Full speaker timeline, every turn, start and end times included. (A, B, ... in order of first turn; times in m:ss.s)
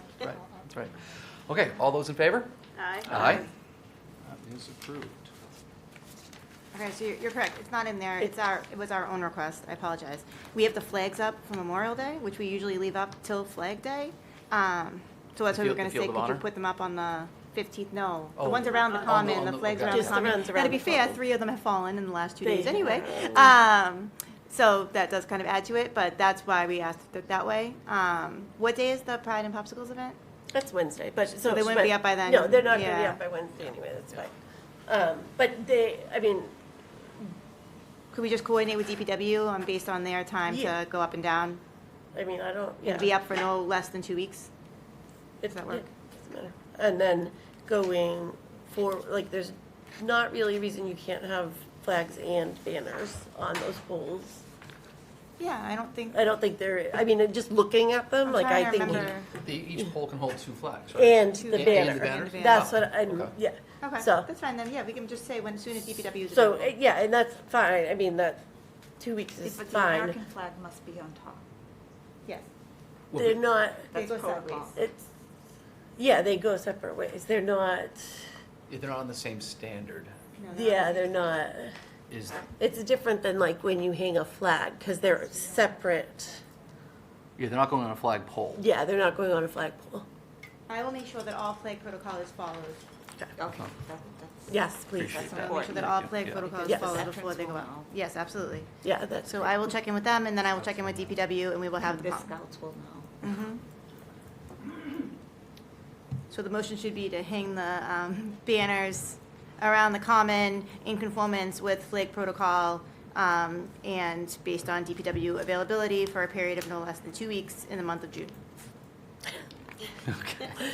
0:00.2-0:02.5 A
0:03.0-0:03.5 A
0:04.2-0:05.3 A
0:06.7-0:30.2 B
0:15.5-0:16.4 A
0:18.4-0:20.4 A
0:19.8-0:21.2 C
0:22.4-0:23.6 C
0:30.5-0:34.3 C
0:31.4-0:33.2 B
0:34.9-0:36.5 C
0:38.1-0:41.6 B
0:40.5-0:40.8 C
0:42.1-0:43.1 C
0:42.8-0:44.5 B
0:45.4-0:54.4 C
0:45.4-0:45.9 B
0:55.4-0:56.2 B
0:56.1-0:59.2 C
0:58.2-0:59.3 B
0:58.8-1:03.3 A
1:00.9-1:04.3 C
1:01.4-1:02.7 B
1:03.8-1:06.8 B
1:06.3-1:08.4 C
1:09.0-1:10.2 C
1:09.5-1:11.4 D
1:13.1-1:13.4 A
1:13.1-1:13.9 C
1:13.9-1:14.7 B
1:13.9-1:14.8 D
1:14.7-1:15.0 C
1:16.0-1:18.3 C
1:18.7-1:20.2 A
1:20.3-1:21.4 B
1:20.5-1:21.7 C
1:22.1-1:22.4 A
1:22.6-1:26.4 C
1:27.4-1:28.6 A
1:28.6-1:30.0 C
1:30.7-1:32.8 B
1:33.4-1:34.4 D
1:33.5-1:33.7 A
1:34.5-1:35.7 C
1:35.0-1:36.6 A
1:35.3-1:35.7 D
1:35.3-1:38.7 B
1:36.6-1:37.0 C
1:36.7-1:37.9 D
1:38.8-1:39.7 C
1:39.2-1:42.3 B
1:42.0-1:43.1 D
1:43.2-1:43.6 B
1:46.3-1:58.3 B
2:00.1-2:00.6 A